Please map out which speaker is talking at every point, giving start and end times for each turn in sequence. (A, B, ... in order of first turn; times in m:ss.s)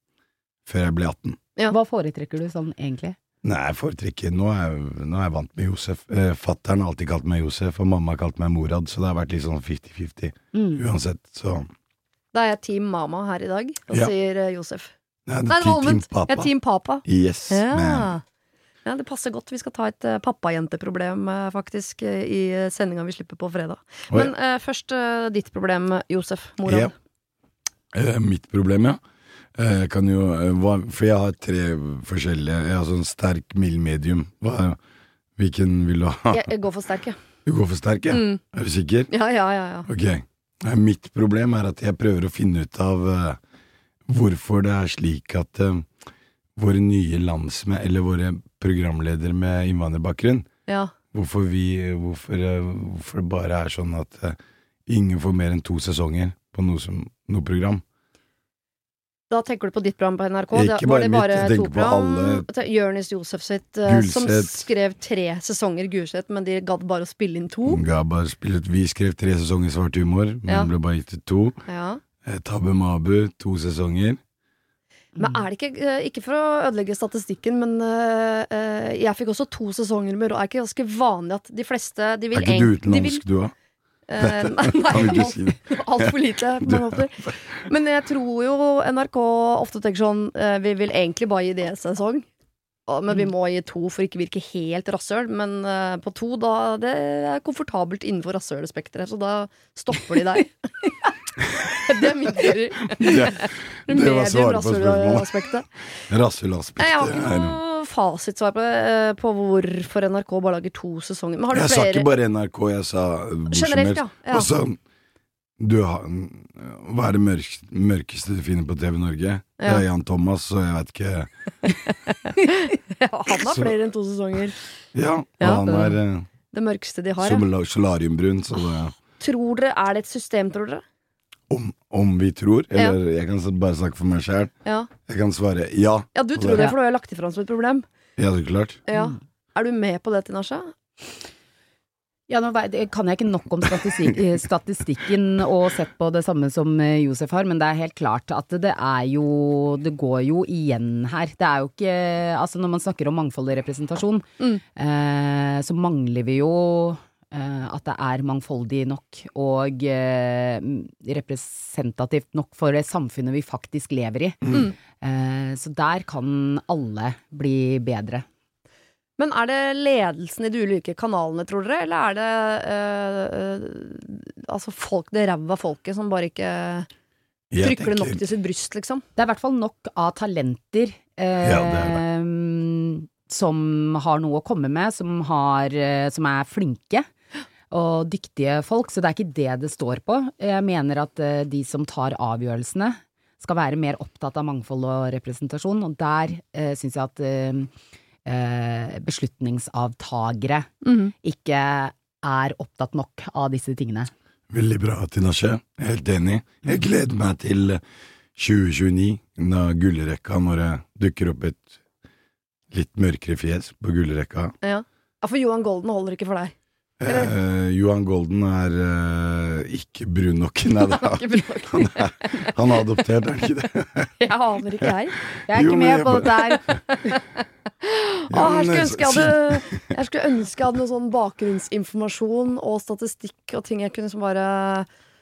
0:00.6-0:01.4 A
0:01.7-0:03.2 B
0:03.4-0:11.7 A
0:10.5-0:10.8 B
0:12.3-0:14.9 C
0:15.3-0:16.5 A
0:15.5-0:18.2 C
0:17.0-0:18.1 A
0:18.8-0:26.9 C
0:26.6-0:26.9 A
0:27.9-0:29.0 A
0:29.6-0:34.8 A
0:35.4-0:36.5 A
0:36.3-0:37.2 C
0:37.4-0:39.1 A
0:38.1-0:38.4 C
0:39.1-0:39.9 C
0:39.8-0:43.4 A
0:44.1-0:45.9 A
0:46.6-0:50.5 A
0:50.7-0:50.9 C
0:51.1-0:57.8 A
0:59.3-1:07.8 C
1:00.5-1:02.4 A
1:03.8-1:04.6 A
1:07.6-1:11.6 A
1:11.7-1:12.0 C
1:12.2-1:14.2 A
1:15.2-1:23.2 C
1:22.3-1:23.5 A
1:24.1-1:32.2 C
1:24.2-1:26.8 A
1:32.9-1:40.5 C
1:41.6-1:45.7 C
1:43.0-1:45.3 A
1:46.1-1:47.6 A
1:46.8-1:52.1 C
1:51.5-1:54.8 A
1:53.5-1:54.5 C
1:55.6-2:01.3 A
2:02.2-2:04.6 C
2:04.9-2:06.3 A
2:05.4-2:05.9 C
2:06.5-2:07.4 C
2:07.2-2:09.0 A
2:09.2-2:10.8 C
2:11.5-2:14.5 A
2:14.6-2:14.9 C
2:15.0-2:16.7 A
2:16.1-2:17.8 C
2:18.2-2:18.8 A
2:18.9-2:20.7 C
2:22.3-2:48.2 B
2:49.2-2:56.9 C
2:57.5-2:58.2 A
2:57.6-2:59.0 C
2:59.2-3:07.0 B
3:01.4-3:02.0 A
3:07.7-3:17.7 B
3:18.2-3:24.1 B
3:20.8-3:21.1 C
3:24.5-3:27.8 A
3:28.4-3:31.7 A
3:32.7-3:34.5 A
3:34.6-3:36.5 C
3:37.0-3:44.1 A
3:37.1-3:37.3 C
3:40.8-3:42.5 C
3:44.2-3:45.2 C
3:45.5-3:46.8 B
3:45.5-3:46.5 A
3:46.9-3:47.2 C
3:47.8-3:54.9 C
3:48.3-3:49.8 A